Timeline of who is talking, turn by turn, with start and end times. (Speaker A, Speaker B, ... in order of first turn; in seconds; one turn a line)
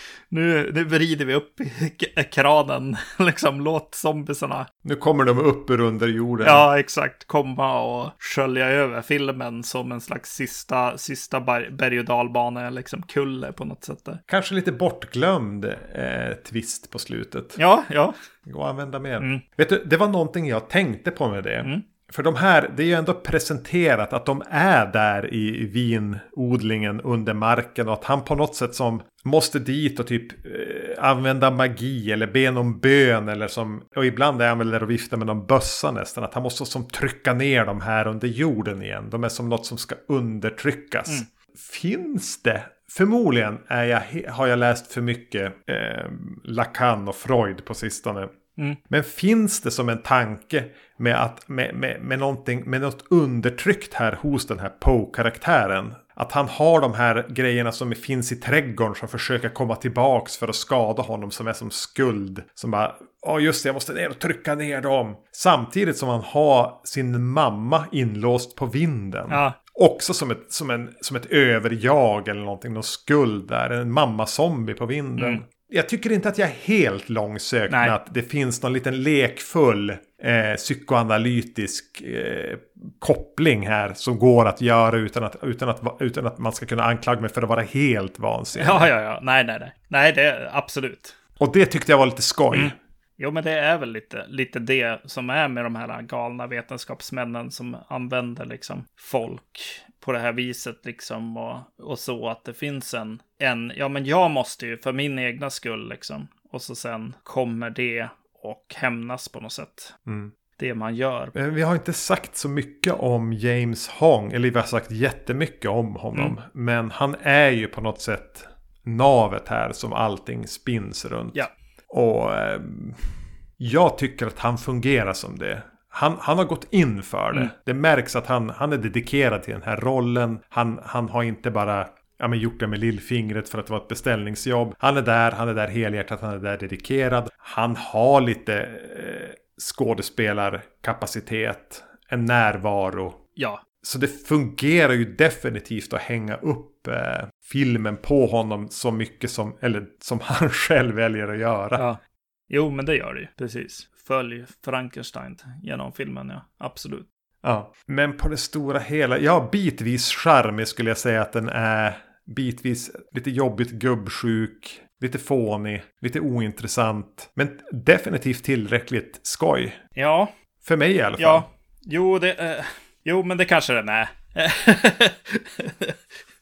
Speaker A: 0.3-4.7
Speaker B: 4.8-6.7
Speaker A: 6.4-14.2
Speaker B: 14.3-17.6
Speaker A: 17.6-18.1
Speaker B: 18.4-48.3
Speaker B: 48.9-88.9
Speaker A: 69.3-69.6
Speaker A: 75.2-75.4
Speaker A: 77.7-78.0
Speaker A: 88.5-91.2
Speaker B: 91.4-92.7
Speaker A: 92.5-110.0
Speaker B: 110.1-110.3
Speaker A: 110.6-111.3
Speaker B: 111.3-143.2
Speaker A: 143.3-143.6
Speaker B: 143.8-151.8
Speaker A: 152.5-157.1
Speaker B: 157.4-169.8
Speaker A: 169.9-170.3
Speaker B: 170.6-171.4
Speaker A: 171.2-176.0